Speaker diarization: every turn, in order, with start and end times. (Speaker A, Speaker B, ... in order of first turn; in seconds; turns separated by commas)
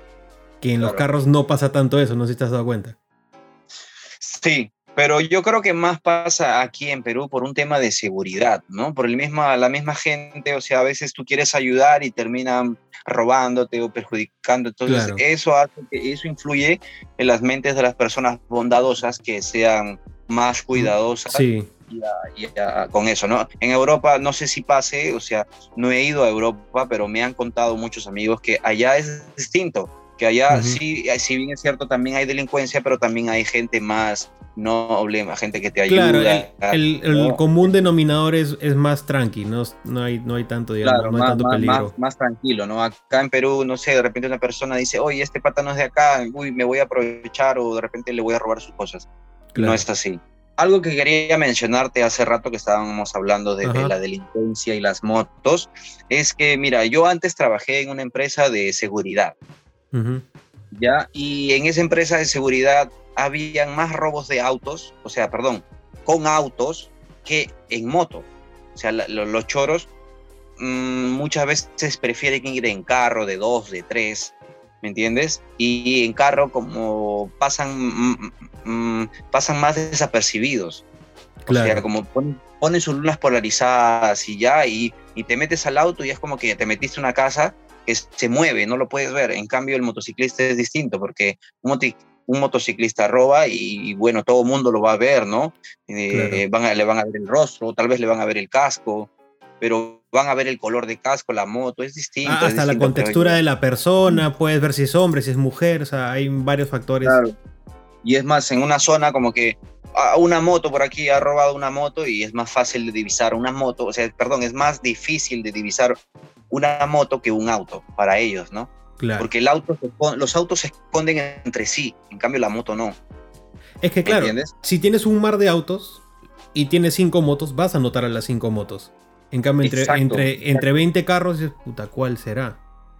Speaker A: 0.6-3.0, Speaker B: 0.8-1.1, Speaker B: 4.2-37.4, Speaker A: 14.9-15.2, Speaker A: 20.7-21.7, Speaker A: 30.5-30.8, Speaker A: 35.9-41.9, Speaker B: 40.8-59.4, Speaker A: 49.5-49.8, Speaker A: 53.6-53.9, Speaker A: 59.9-60.2, Speaker B: 60.7-69.9, Speaker B: 70.6-80.8, Speaker A: 81.5-81.8, Speaker B: 81.5-103.4, Speaker A: 96.1-96.4, Speaker A: 102.2-107.2, Speaker B: 107.0-107.3, Speaker B: 108.0-116.0, Speaker B: 116.5-123.0, Speaker A: 119.0-119.3, Speaker A: 123.8-132.6, Speaker B: 124.0-124.5, Speaker B: 129.6-130.7